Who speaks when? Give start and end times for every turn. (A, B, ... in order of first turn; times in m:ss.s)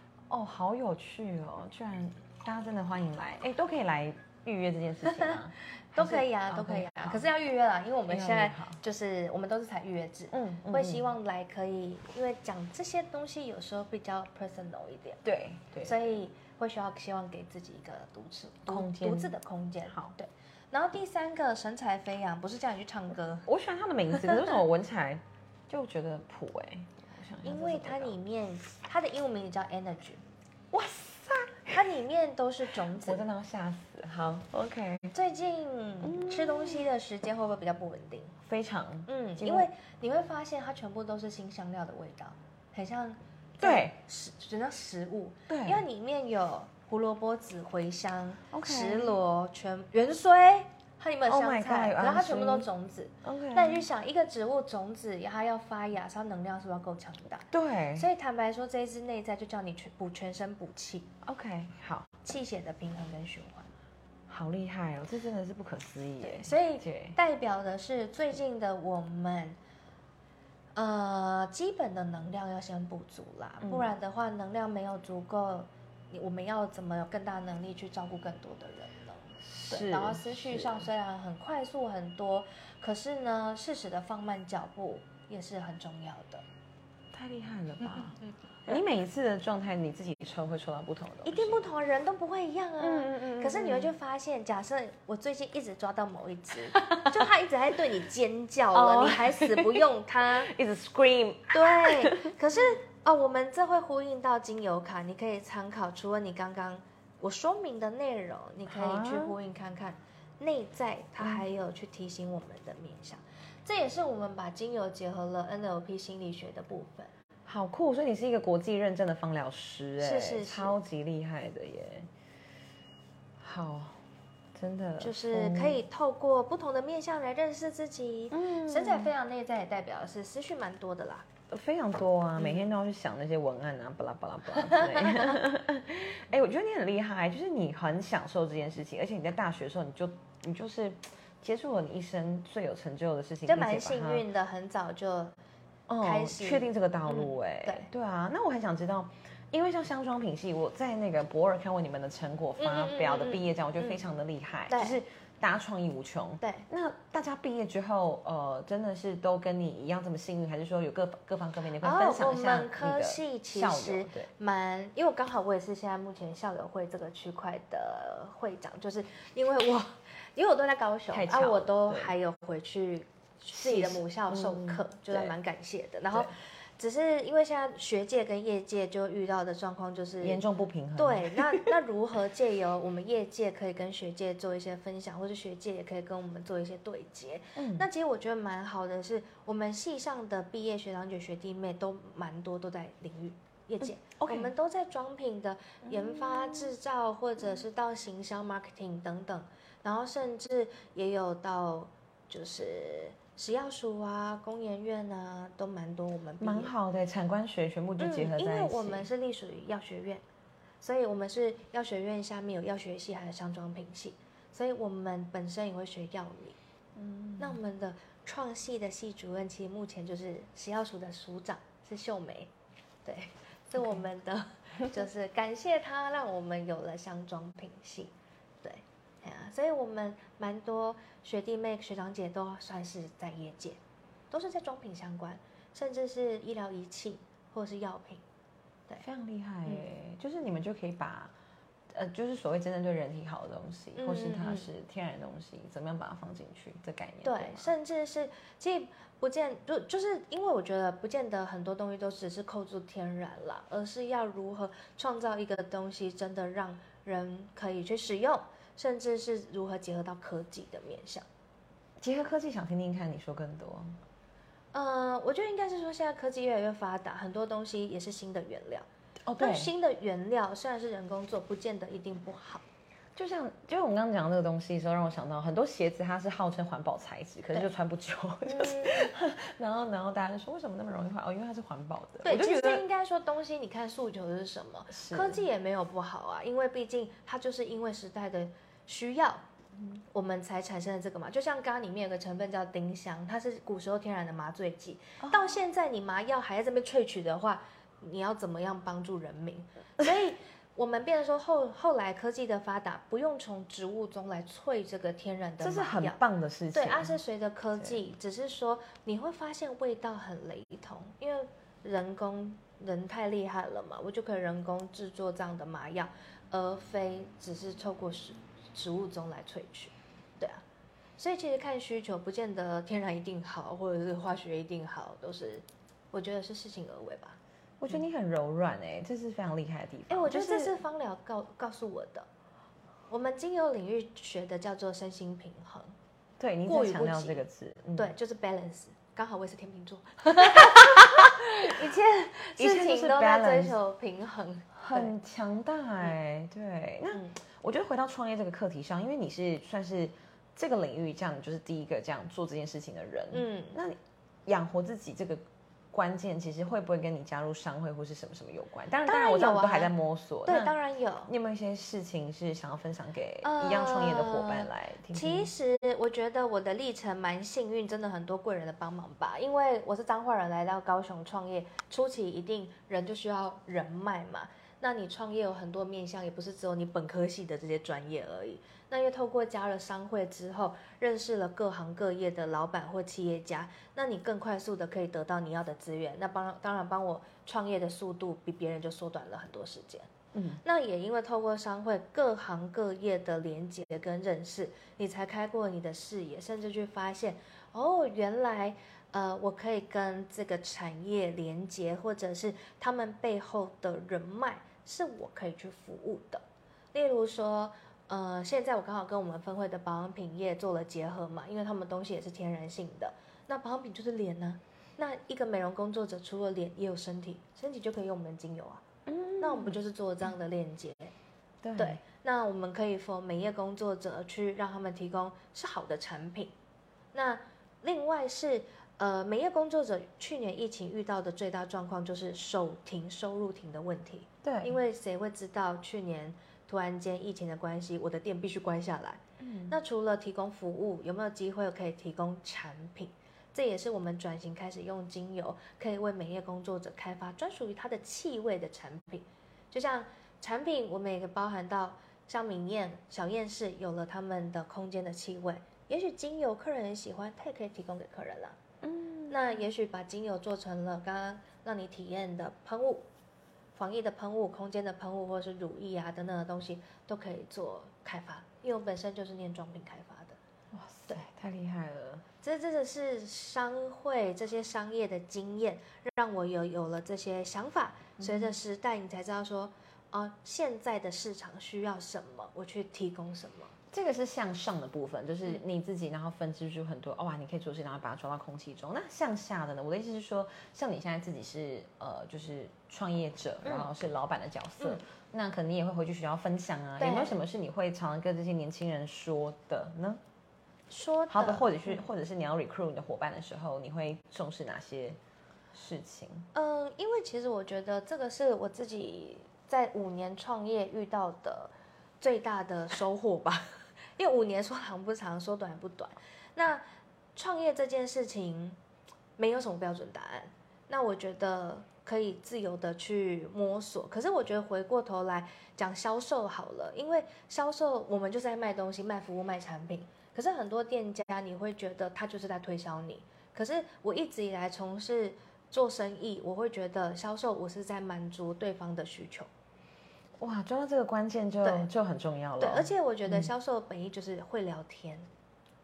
0:00.3-0:07.3 A
0:05.0-0:05.4 B
0:05.9-0:15.2 B
0:08.1-0:08.8 A
0:10.3-0:11.1 A
0:15.2-0:16.1 A
0:15.8-0:23.4 B
0:18.7-0:19.3 A
0:19.9-0:20.2 A
0:23.4-0:28.2 A
0:24.1-0:24.5 B
0:27.4-0:30.2 B
0:30.7-0:31.8 A
0:31.7-0:33.2 B
0:32.9-0:35.1 A
0:35.1-0:38.4 B
0:36.0-0:36.9 A
0:38.4-0:39.7 A
0:39.1-1:01.1 B
0:43.6-0:44.0 A
0:45.5-0:45.8 A
0:48.5-0:49.2 A
0:51.3-0:52.7 A
0:53.2-0:53.9 A
0:57.5-0:58.1 A
1:01.2-1:02.1 A
1:02.2-1:03.7 B
1:04.3-1:07.2 A
1:06.2-1:09.6 B
1:10.7-1:26.4 B
1:13.6-1:13.9 A
1:19.4-1:20.9 A
1:27.1-1:31.6 A
1:31.2-1:40.5 B
1:32.8-1:33.9 A
1:36.7-1:37.2 A
1:38.7-1:42.4 A
1:41.5-1:57.1 B
1:48.7-1:49.3 A
1:57.4-2:02.1 A
2:00.0-2:00.8 B
2:03.4-2:04.0 A
2:04.5-2:05.8 A
2:05.0-2:11.3 B
2:08.3-2:09.1 A
2:11.5-2:24.2 A
2:12.4-2:12.7 B
2:14.5-2:15.4 B
2:23.5-2:25.4 B
2:25.9-2:44.3 A
2:26.0-2:27.9 B
2:32.6-2:34.0 B
2:34.7-2:35.0 B
2:36.4-2:36.7 B
2:41.8-3:00.4 B
2:51.1-2:52.1 A
2:53.5-2:55.3 A
3:00.2-3:01.7 A
3:01.0-3:26.7 B
3:07.6-3:07.9 A
3:14.2-3:14.5 A
3:15.8-3:16.7 A
3:26.4-3:29.1 A
3:28.0-3:30.2 B
3:30.8-3:36.6 B
3:37.0-3:37.6 A
3:37.4-3:42.5 B
3:43.0-3:53.8 B
3:54.3-3:58.2 B
3:59.0-4:01.3 A
4:01.9-4:07.7 A
4:04.0-4:04.7 B
4:07.2-4:21.2 B
4:22.0-4:24.0 A
4:24.7-4:28.9 B
4:29.2-4:29.7 A
4:29.4-4:32.6 B
4:33.2-4:42.8 A
4:38.4-4:39.1 B
4:42.2-4:49.4 B
4:44.9-4:45.4 A
4:50.1-5:06.2 B
4:55.2-4:55.5 A
5:05.6-5:07.2 A
5:06.7-5:20.6 B
5:21.2-5:27.4 B
5:27.8-5:30.8 A
5:30.1-5:32.3 B
5:33.1-5:36.0 B
5:36.4-5:38.1 A
5:36.7-5:37.4 B
5:38.0-5:45.1 B
5:40.4-5:41.7 A
5:42.6-5:43.8 A
5:44.7-6:05.5 A
5:47.1-5:47.4 B
5:53.3-5:53.8 B
5:59.0-5:59.9 B
6:00.4-6:01.3 B
6:03.4-6:30.1 B
6:30.3-6:30.6 A
6:30.6-6:58.8 B
6:59.0-6:59.8 A
6:59.4-7:01.1 B
7:01.6-7:02.0 A
7:01.8-7:06.5 B
7:07.1-7:38.6 B
7:14.4-7:14.8 A
7:19.4-7:19.8 A
7:38.8-7:39.4 A
7:39.3-7:43.0 B
7:43.7-7:50.4 B
7:50.7-7:52.2 A
7:52.4-8:03.8 B
7:58.2-7:58.5 A
8:03.9-8:20.2 A
8:13.6-8:13.9 B
8:17.0-8:17.4 B
8:20.9-8:22.0 B
8:21.3-8:25.2 A
8:25.7-8:26.5 A
8:26.5-8:36.8 B
8:37.3-8:38.8 B
8:39.4-8:59.5 B
9:00.4-9:03.5 A
9:01.6-9:01.9 B
9:02.6-9:05.3 B